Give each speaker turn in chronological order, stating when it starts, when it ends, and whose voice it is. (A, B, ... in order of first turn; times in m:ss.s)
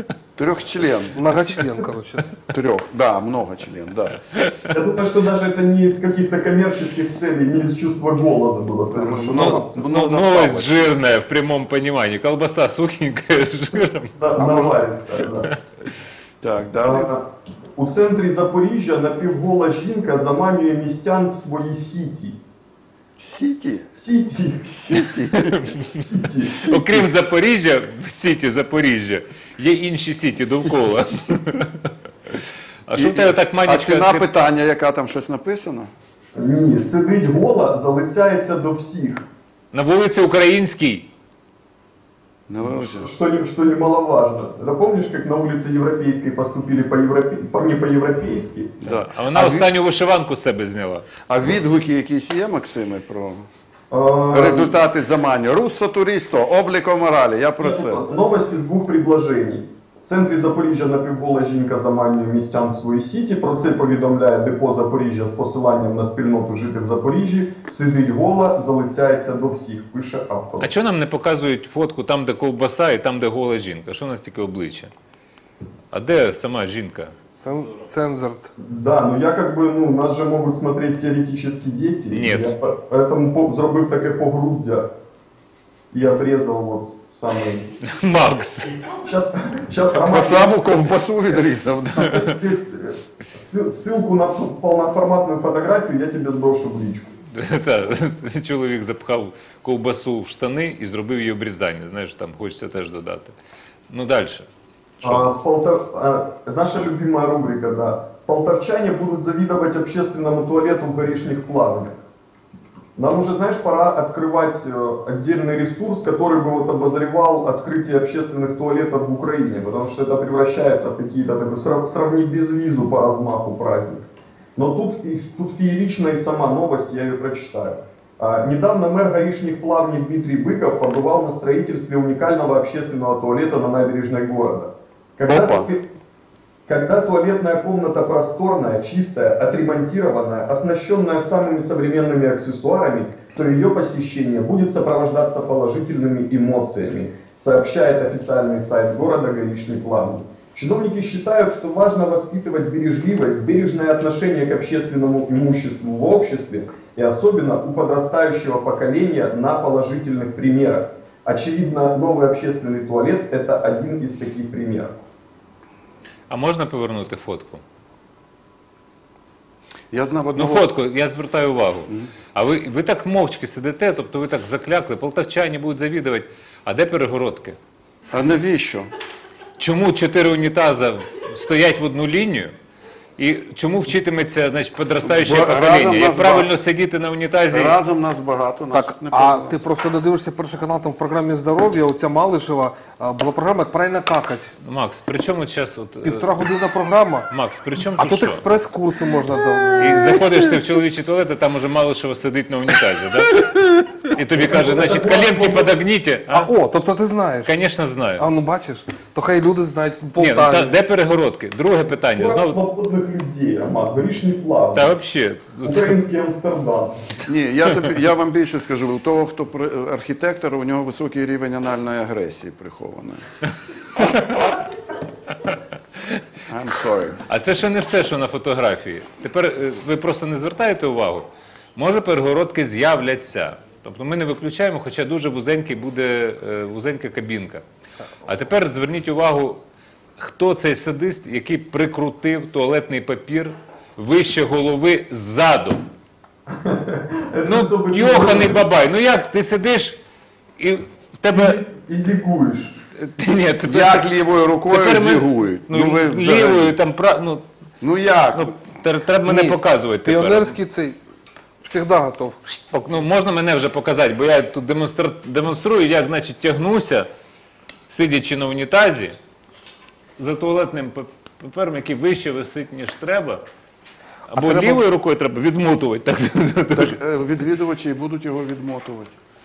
0:00.4-0:01.3 A
0:01.1-0:02.4 B
0:02.5-0:04.2 A
0:04.7-0:09.7 C
0:08.9-0:10.9 A
0:09.3-0:14.2 D
0:14.2-0:15.5 C
0:14.4-0:14.7 B
0:16.4-0:17.1 A
0:16.8-0:22.4 C
0:23.2-0:23.9 A
0:23.9-0:24.9 C
0:24.8-0:25.7 A
0:25.3-0:26.0 D
0:25.8-0:26.6 C
0:26.6-0:34.2 D
0:26.7-0:27.0 A
0:33.0-0:35.9 A
0:36.3-0:39.2 C
0:39.7-0:41.1 D
0:42.5-0:43.1 A
0:42.6-0:48.8 C
0:48.8-0:49.7 A
0:48.9-0:51.1 D
0:51.3-0:53.4 A
0:53.9-0:54.8 C
0:54.3-0:58.0 A
0:57.6-1:10.7 C
1:10.6-1:14.9 D
1:15.9-1:17.1 D
1:17.4-1:18.5 B
1:18.6-1:24.8 C
1:22.1-1:22.5 D
1:25.9-1:27.7 C
1:27.8-1:28.8 D
1:28.9-1:30.6 C
1:29.9-1:32.3 A
1:31.9-1:37.1 C
1:37.3-1:43.3 D
1:43.9-1:44.5 D
1:45.0-1:45.4 D
1:45.0-1:52.0 C
1:53.0-2:15.8 C
2:15.3-2:15.7 A
2:16.7-2:45.0 C
2:46.3-2:47.6 D
2:49.9-2:50.7 A
2:50.3-2:57.6 D
2:58.1-2:58.9 A
2:59.6-3:02.5 D
3:03.2-3:07.8 D
3:05.0-3:06.5 A
3:07.5-3:09.6 A
3:08.7-3:14.5 B
3:14.6-3:16.4 D
3:16.0-3:17.3 B
3:17.3-3:18.4 D
3:17.9-3:20.3 B
3:19.8-3:26.5 D
3:24.3-3:25.7 C
3:26.3-3:27.5 B
3:27.4-3:28.2 D
3:28.2-3:30.7 B
3:30.2-3:32.6 D
3:32.2-3:34.9 C
3:34.7-3:36.0 D
3:35.6-3:37.1 C
3:37.2-3:43.2 A
3:44.1-3:44.4 D
3:46.5-3:47.2 A
3:47.2-3:57.6 D
3:58.2-3:59.6 D
4:00.2-4:05.8 D
4:06.5-4:08.6 C
4:07.4-4:10.0 D
4:10.6-4:11.6 D
4:11.3-4:12.7 C
4:12.9-4:14.0 D
4:13.6-4:16.7 A
4:14.7-4:17.4 D
4:17.8-4:18.5 A
4:18.3-4:20.5 D
4:19.2-4:21.0 B
4:21.6-4:22.4 B
4:22.5-4:27.1 D
4:27.9-4:29.2 D
4:30.2-4:33.4 D
4:34.3-4:37.0 D
4:34.4-4:34.8 A
4:36.7-4:39.1 A